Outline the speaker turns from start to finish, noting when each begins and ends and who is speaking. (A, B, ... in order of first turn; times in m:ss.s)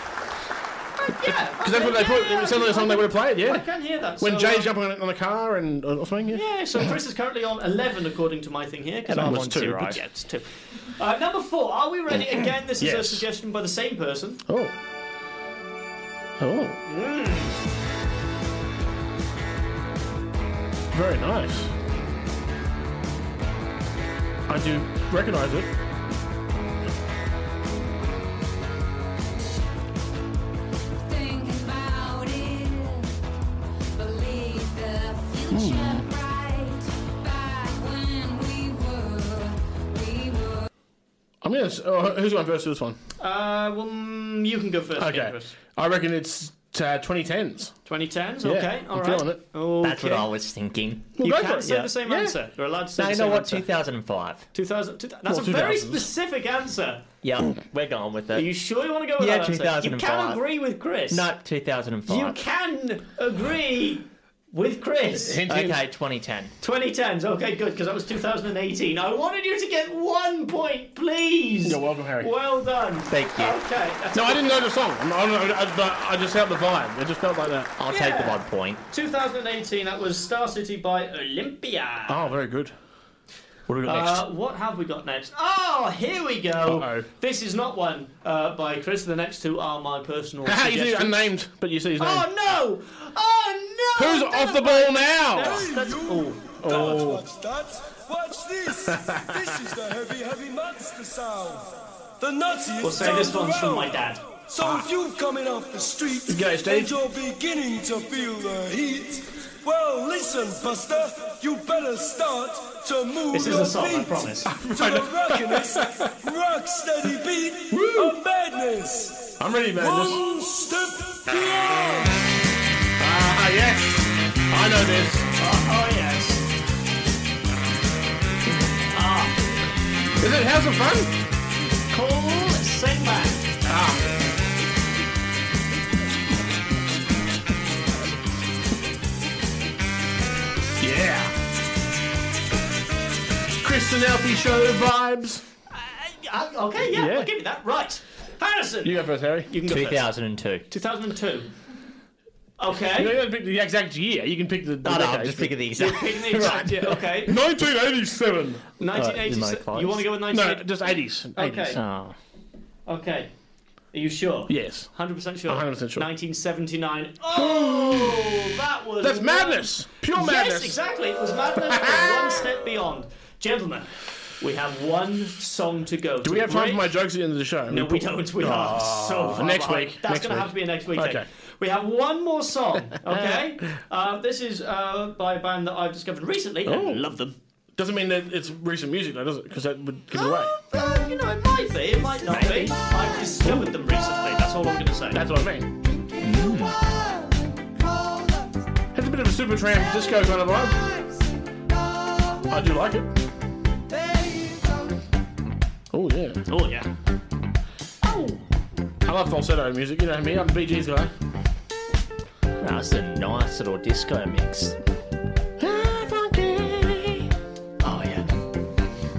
0:01.0-0:04.7 A
0:01.2-0:03.6 B
0:04.2-0:06.9 B
0:06.3-0:14.4 A
0:09.0-0:10.0 C
0:09.2-0:09.8 B
0:12.8-0:13.2 B
0:14.5-0:14.7 B
0:16.4-0:16.8 B
0:16.8-0:17.6 A
0:20.9-0:21.7 B
0:24.5-0:25.7 B
0:31.0-0:33.2 D
0:34.0-0:40.7 D
0:35.5-0:36.0 B
0:41.4-0:43.0 B
0:43.2-0:45.5 A
0:45.0-0:47.7 B
0:47.8-0:50.2 A
0:48.4-0:49.4 B
0:49.8-0:51.2 C
0:51.2-0:52.4 B
0:51.2-0:53.6 A
0:53.0-0:54.5 C
0:54.5-0:57.0 A
0:55.3-0:56.1 B
0:57.2-0:58.5 C
0:58.3-1:01.3 A
0:59.2-1:00.4 C
1:01.1-1:02.4 C
1:02.1-1:05.4 A
1:05.2-1:05.8 B
1:05.4-1:06.5 C
1:06.6-1:14.5 A
1:11.6-1:12.3 B
1:13.1-1:13.6 C
1:14.1-1:17.8 B
1:17.8-1:18.8 C
1:17.9-1:22.3 A
1:22.1-1:22.7 B
1:23.7-1:24.2 B
1:23.8-1:31.2 A
1:26.6-1:27.0 B
1:30.4-1:32.3 B
1:32.0-1:37.1 A
1:34.0-1:35.7 B
1:35.4-2:02.3 E
1:36.6-1:37.2 B
1:38.9-1:39.4 B
1:42.8-1:44.2 A
1:44.6-1:44.9 B
1:46.3-1:46.9 B
1:53.3-1:54.5 A
1:54.5-1:56.1 B
1:57.7-1:58.2 B
1:59.4-2:00.2 B
2:03.0-2:05.3 B
2:05.4-2:06.4 A
2:08.9-2:09.4 A
2:10.2-2:11.1 B
2:11.9-2:13.5 A
2:13.7-2:14.1 B
2:20.8-2:21.3 B
2:23.6-2:25.4 B
2:25.7-2:30.1 A
2:26.9-2:27.3 B
2:28.8-2:29.5 B
2:29.6-2:30.7 C
2:30.7-2:31.5 A
2:32.6-2:33.2 A
2:32.9-2:35.6 B
2:34.8-2:36.4 C
2:35.8-2:37.4 A
2:36.2-2:38.7 B
2:38.8-2:40.6 A
2:38.9-2:40.0 C
2:40.3-2:41.8 B
2:41.4-2:41.8 A
2:41.7-2:42.2 C
2:42.9-2:43.3 A
2:43.9-2:56.9 A
2:44.5-2:44.9 B
2:45.5-2:46.1 B
2:47.3-2:48.2 B
2:49.0-2:50.8 B
2:51.6-2:52.4 B
2:56.2-3:01.2 B
2:57.7-3:07.4 A
3:03.0-3:03.5 B
3:06.6-3:07.0 B
3:07.8-3:10.6 B
3:10.1-3:15.2 A
3:12.3-3:12.7 C
3:13.4-3:13.7 B
3:15.1-3:15.7 B
3:16.2-3:16.9 C
3:18.9-3:20.9 B
3:22.5-3:23.1 B
3:25.9-3:26.5 B
3:26.5-3:26.9 A
3:28.0-3:28.4 A
3:29.0-3:31.1 B
3:32.6-3:34.8 C
3:35.6-3:37.3 B
3:37.8-3:38.3 A